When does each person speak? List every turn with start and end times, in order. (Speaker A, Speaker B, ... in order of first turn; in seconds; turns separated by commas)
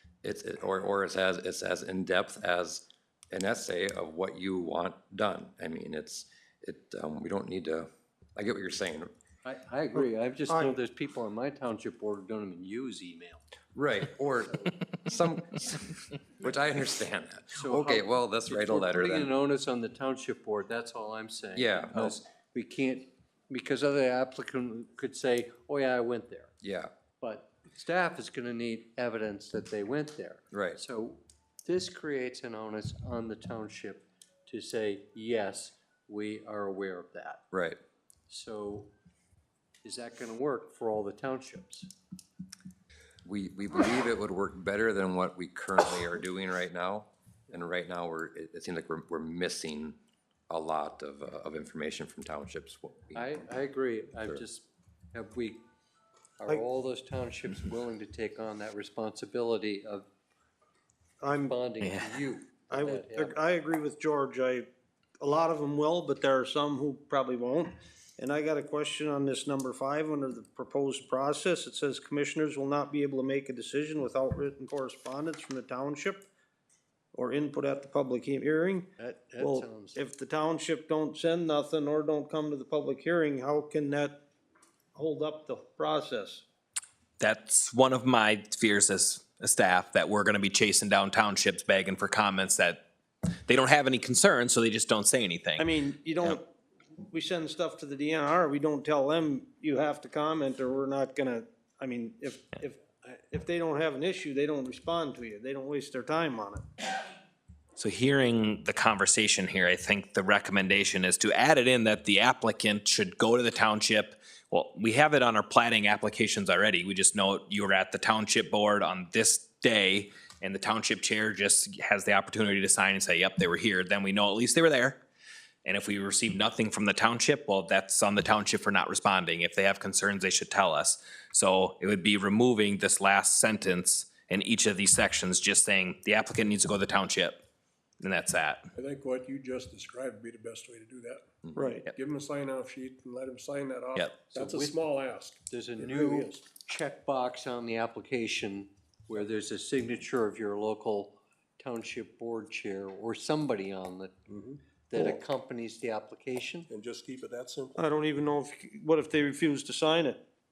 Speaker A: 0.2-9.1, Speaker B: 9.4-13.4, Speaker C: 10.0-10.8, Speaker A: 13.7-19.3, Speaker B: 17.5-26.5, Speaker A: 21.5-22.2, Speaker A: 26.6-26.9, Speaker B: 27.2-37.4, Speaker A: 30.5-30.8, Speaker A: 37.5-37.8, Speaker B: 38.3-38.9, Speaker B: 39.8-41.9, Speaker A: 43.2-50.0, Speaker A: 50.5-53.5, Speaker B: 53.1-55.6, Speaker B: 56.4-60.1, Speaker C: 61.2-61.5, Speaker B: 61.2-63.4, Speaker D: 61.8-62.2, Speaker C: 62.7-64.7, Speaker C: 65.2-76.2, Speaker C: 77.1-78.9, Speaker B: 79.0-80.0, Speaker C: 79.4-84.2, Speaker C: 84.9-86.4, Speaker D: 87.2-92.8, Speaker D: 93.5-95.6, Speaker C: 95.6-96.5, Speaker C: 97.1-106.6, Speaker D: 107.8-125.0, Speaker D: 125.6-137.4, Speaker D: 138.0-138.6, Speaker E: 138.7-141.2, Speaker C: 141.5-141.8, Speaker E: 141.8-146.4, Speaker B: 144.3-144.8, Speaker B: 145.5-154.2, Speaker E: 154.3-155.2, Speaker B: 154.8-156.7, Speaker E: 156.7-157.8, Speaker C: 157.8-160.2